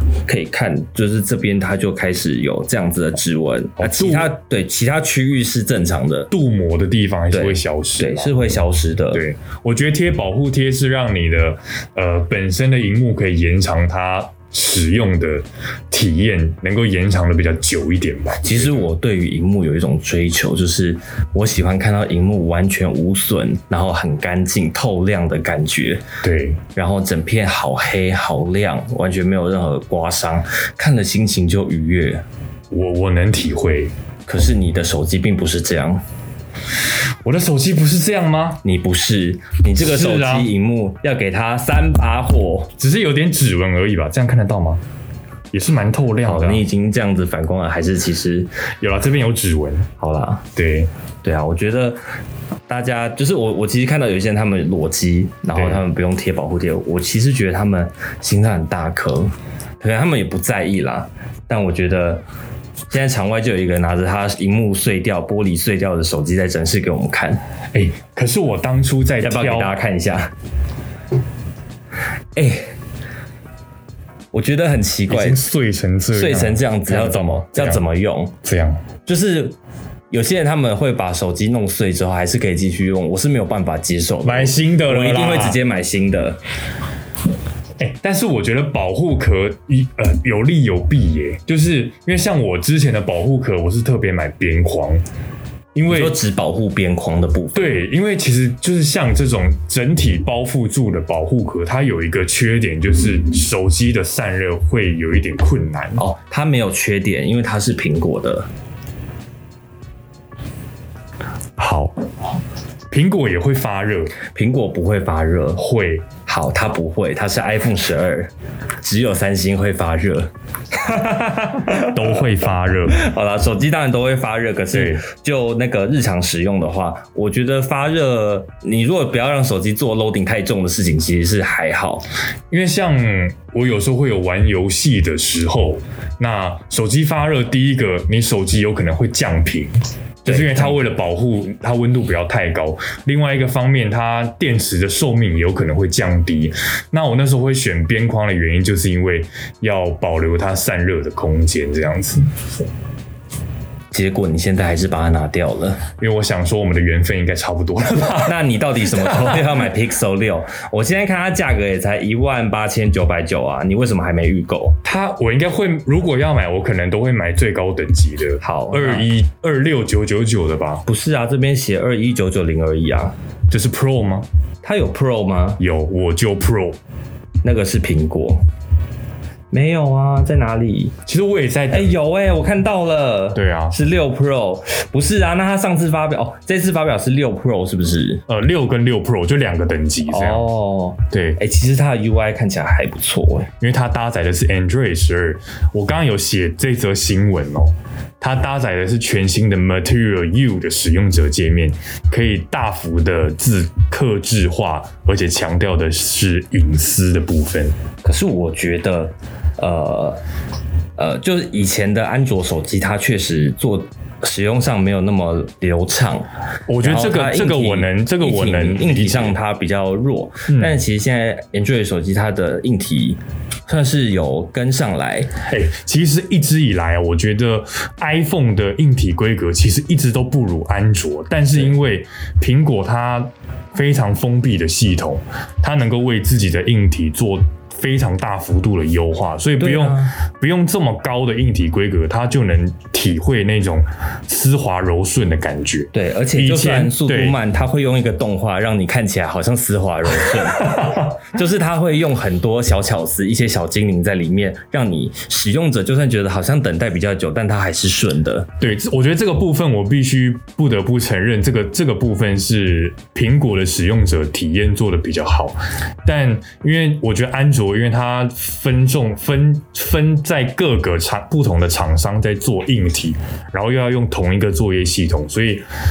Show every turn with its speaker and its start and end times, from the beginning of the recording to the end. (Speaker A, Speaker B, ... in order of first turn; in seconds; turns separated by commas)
Speaker A: 0.2-6.3, Speaker B: 3.8-4.3, Speaker B: 6.3-8.3, Speaker A: 7.3-9.2, Speaker B: 9.1-18.9, Speaker A: 18.4-26.0, Speaker B: 26.2-26.6, Speaker A: 26.7-32.2, Speaker B: 32.7-33.9, Speaker A: 34.3-36.0, Speaker B: 37.2-38.6, Speaker A: 38.6-42.7, Speaker B: 39.8-40.5, Speaker B: 42.8-44.8, Speaker B: 45.5-46.6, Speaker A: 46.2-48.5, Speaker B: 48.8-49.9, Speaker A: 50.0-50.5, Speaker B: 50.5-50.9, Speaker A: 51.2-52.0, Speaker A: 52.7-62.2, Speaker B: 55.5-55.8, Speaker A: 62.9-67.4, Speaker B: 67.7-69.7, Speaker A: 69.2-70.3, Speaker A: 72.3-72.7, Speaker A: 74.3-75.4, Speaker B: 75.1-77.8, Speaker A: 76.1-78.3, Speaker B: 78.4-78.8, Speaker A: 79.0-79.5, Speaker A: 80.1-86.4, Speaker B: 84.2-85.6, Speaker B: 87.8-95.0, Speaker B: 95.7-96.2, Speaker A: 95.9-97.8, Speaker B: 97.5-106.0, Speaker A: 106.0-108.5, Speaker B: 111.6-111.9, Speaker B: 112.9-114.2, Speaker A: 114.3-115.6, Speaker B: 115.5-116.1, Speaker A: 116.2-121.9, Speaker B: 121.7-123.0, Speaker A: 122.9-132.1, Speaker B: 124.7-125.0, Speaker B: 132.5-139.7, Speaker B: 140.2-152.3, Speaker A: 140.2-140.8, Speaker A: 153.9-155.8, Speaker B: 156.0-158.3, Speaker A: 158.2-164.8, Speaker B: 158.9-159.6, Speaker B: 164.8-170.8, Speaker A: 168.4-169.1, Speaker A: 170.8-173.1, Speaker B: 173.5-174.3, Speaker A: 174.6-175.6, Speaker B: 175.6-176.8, Speaker A: 177.4-178.4, Speaker A: 179.5-180.9, Speaker B: 181.1-181.9, Speaker A: 181.7-188.2, Speaker B: 183.3-183.8, Speaker B: 188.3-190.5, Speaker A: 190.1-193.5, Speaker B: 191.1-191.4, Speaker B: 193.6-207.7, Speaker A: 208.0-210.2, Speaker A: 211.0-216.3, Speaker B: 216.7-219.4, Speaker A: 216.8-225.3, Speaker B: 220.5-220.8, Speaker B: 225.5-247.4, Speaker A: 239.6-240.2, Speaker A: 245.9-258.5, Speaker B: 250.6-250.9, Speaker B: 258.6-275.6